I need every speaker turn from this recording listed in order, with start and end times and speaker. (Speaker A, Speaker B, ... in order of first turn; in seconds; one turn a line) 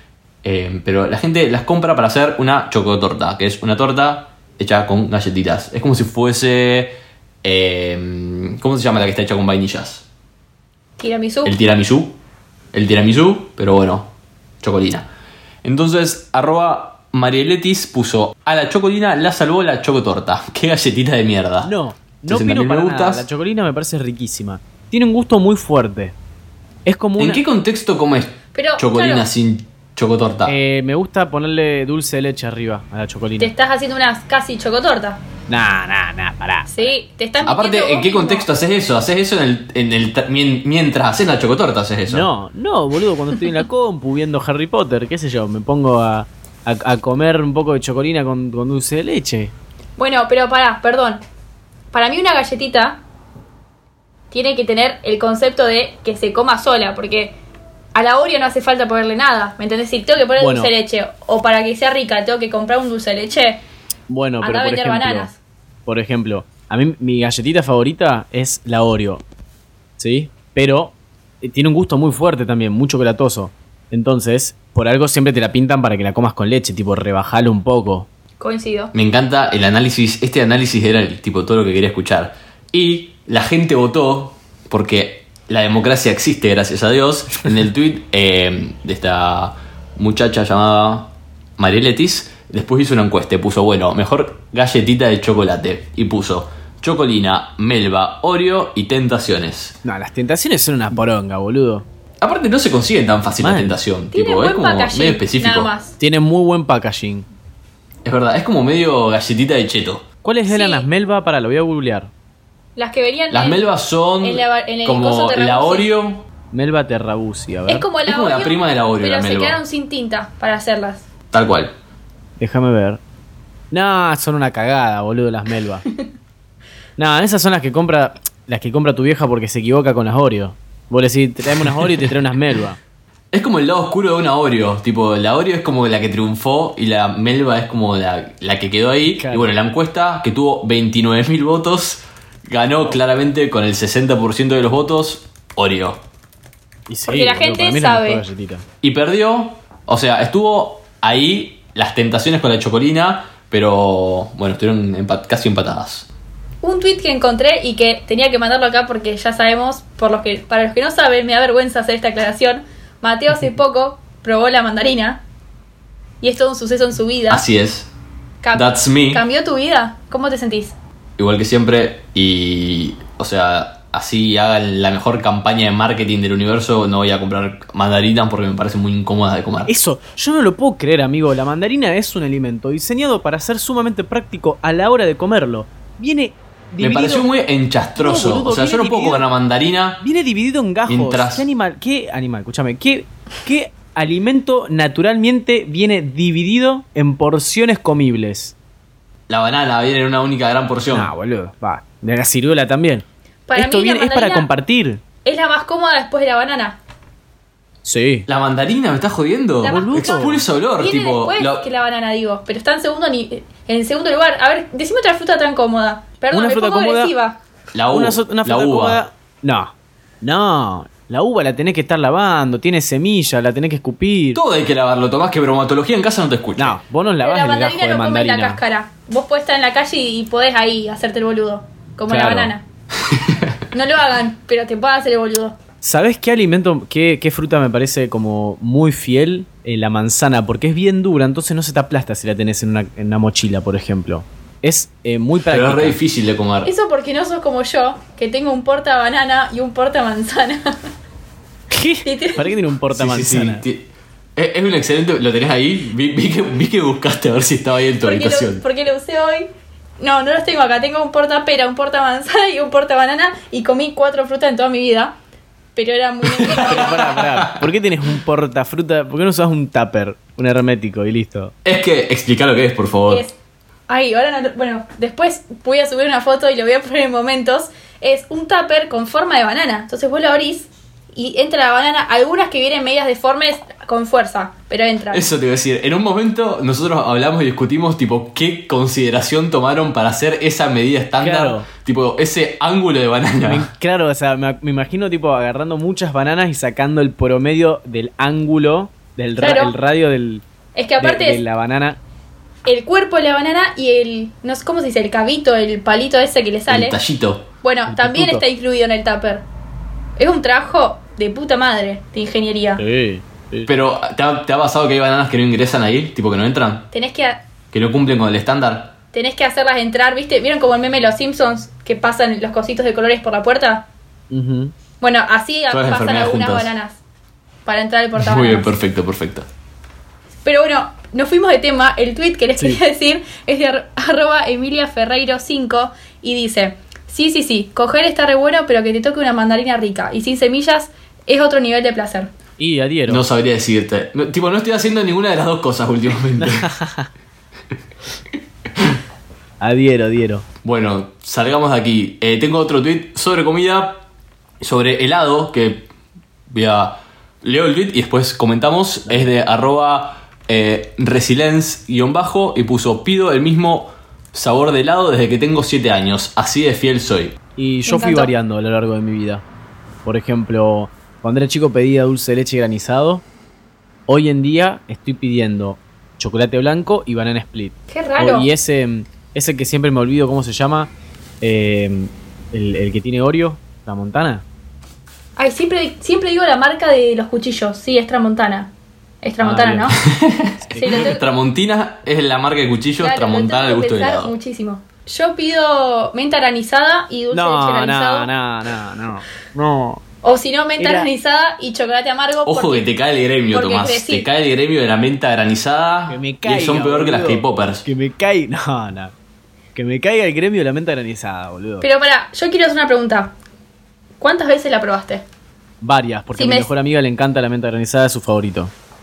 Speaker A: 0.4-10.1
Speaker B: 11.0-11.6
Speaker A: 11.4-12.2
Speaker A: 12.7-15.1
Speaker A: 15.6-21.7
Speaker C: 21.6-26.1
Speaker A: 22.3-23.3
Speaker C: 26.9-27.4
Speaker A: 27.2-30.6
Speaker B: 28.6-29.3
Speaker C: 30.4-33.5
Speaker B: 33.4-35.2
Speaker C: 35.5-36.9
Speaker B: 36.7-38.5
Speaker A: 37.4-42.3
Speaker C: 42.1-49.5
Speaker B: 50.0-51.2
Speaker B: 51.9-53.0
Speaker B: 54.3-57.4
Speaker B: 58.0-63.6
Speaker C: 60.4-60.7
Speaker C: 64.1-65.3
Speaker B: 64.4-65.4
Speaker C: 65.9-69.2
Speaker C: 70.0-78.1
Speaker B: 78.4-78.9
Speaker A: 78.9-99.8
Speaker C: 99.8-101.8
Speaker A: 102.2-105.7
Speaker C: 103.4-103.8
Speaker B: 104.1-106.0
Speaker C: 106.0-107.3
Speaker A: 108.0-110.0
Speaker C: 110.2-112.1
Speaker B: 110.5-110.9
Speaker B: 112.8-113.7
Speaker A: 113.3-116.3
Speaker B: 114.2-115.9
Speaker C: 116.5-117.9
Speaker B: 117.7-121.1
Speaker A: 118.0-119.6
Speaker A: 121.3-121.7
Speaker C: 122.4-123.0
Speaker C: 123.7-125.9
Speaker C: 127.0-132.8
Speaker A: 133.3-146.0
Speaker C: 139.1-139.5
Speaker C: 146.9-148.7
Speaker B: 147.1-148.2
Speaker A: 148.8-156.1
Speaker B: 156.6-165.2
Speaker B: 166.2-167.4
Speaker A: 167.3-167.9
Speaker B: 168.4-170.8
Speaker A: 168.5-169.2
Speaker A: 171.2-179.7
Speaker C: 179.7-187.3
Speaker A: 186.8-190.0
Speaker C: 188.0-189.2
Speaker C: 190.0-198.6
Speaker A: 190.9-191.5
Speaker A: 199.3-201.1
Speaker C: 200.9-205.0
Speaker B: 203.5-204.5
Speaker B: 205.2-206.8
Speaker C: 207.8-208.3
Speaker A: 208.3-211.7
Speaker B: 209.6-217.4
Speaker C: 209.7-210.4
Speaker C: 216.3-217.1
Speaker A: 217.7-219.0
Speaker C: 217.9-224.4
Speaker A: 224.3-226.8
Speaker C: 226.6-228.6
Speaker B: 227.2-232.6
Speaker C: 232.1-232.5
Speaker A: 233.1-233.6
Speaker B: 233.7-235.6
Speaker C: 235.8-246.0
Speaker A: 245.5-246.7
Speaker B: 246.6-250.8
Speaker C: 251.7-253.6
Speaker B: 252.0-252.5
Speaker A: 252.9-258.6
Speaker B: 258.0-265.1
Speaker B: 265.8-267.0
Speaker A: 266.2-267.7
Speaker C: 266.6-271.5
Speaker A: 271.6-273.3
Speaker B: 273.1-273.4
Speaker B: 273.9-285.3
Speaker A: 285.1-293.7
Speaker C: 291.2-291.7
Speaker C: 293.4-300.4
Speaker B: 299.4-299.7
Speaker B: 300.8-301.4
Speaker C: 301.0-302.0
Speaker B: 302.7-307.0
Speaker A: 306.7-307.5
Speaker B: 307.6-309.5
Speaker C: 307.9-308.4
Speaker B: 310.2-312.8
Speaker C: 312.8-313.7
Speaker A: 313.7-316.9
Speaker B: 316.9-317.5
Speaker A: 317.7-318.9
Speaker B: 319.1-323.9
Speaker C: 324.3-324.7
Speaker B: 325.0-327.0
Speaker A: 325.7-326.7
Speaker B: 327.6-328.7
Speaker A: 328.2-329.5
Speaker B: 330.4-342.3
Speaker C: 342.6-343.2
Speaker A: 343.1-346.7
Speaker C: 346.4-347.1
Speaker C: 349.6-350.5
Speaker A: 350.6-354.0
Speaker A: 354.6-355.9
Speaker A: 356.5-367.4
Speaker C: 367.6-369.4
Speaker B: 367.9-368.3
Speaker C: 370.0-373.2
Speaker C: 374.1-384.4
Speaker B: 377.9-378.5
Speaker B: 385.4-390.0
Speaker C: 389.4-390.0
Speaker A: 390.0-394.4
Speaker C: 390.7-391.0
Speaker B: 390.8-391.2
Speaker B: 393.0-398.3
Speaker C: 397.3-400.0
Speaker B: 400.2-402.9
Speaker C: 400.8-401.1
Speaker A: 402.5-407.9
Speaker B: 403.5-404.3
Speaker C: 406.1-409.1
Speaker C: 409.8-411.9
Speaker B: 411.8-413.3
Speaker B: 414.2-415.2
Speaker C: 415.8-418.7
Speaker B: 416.4-416.7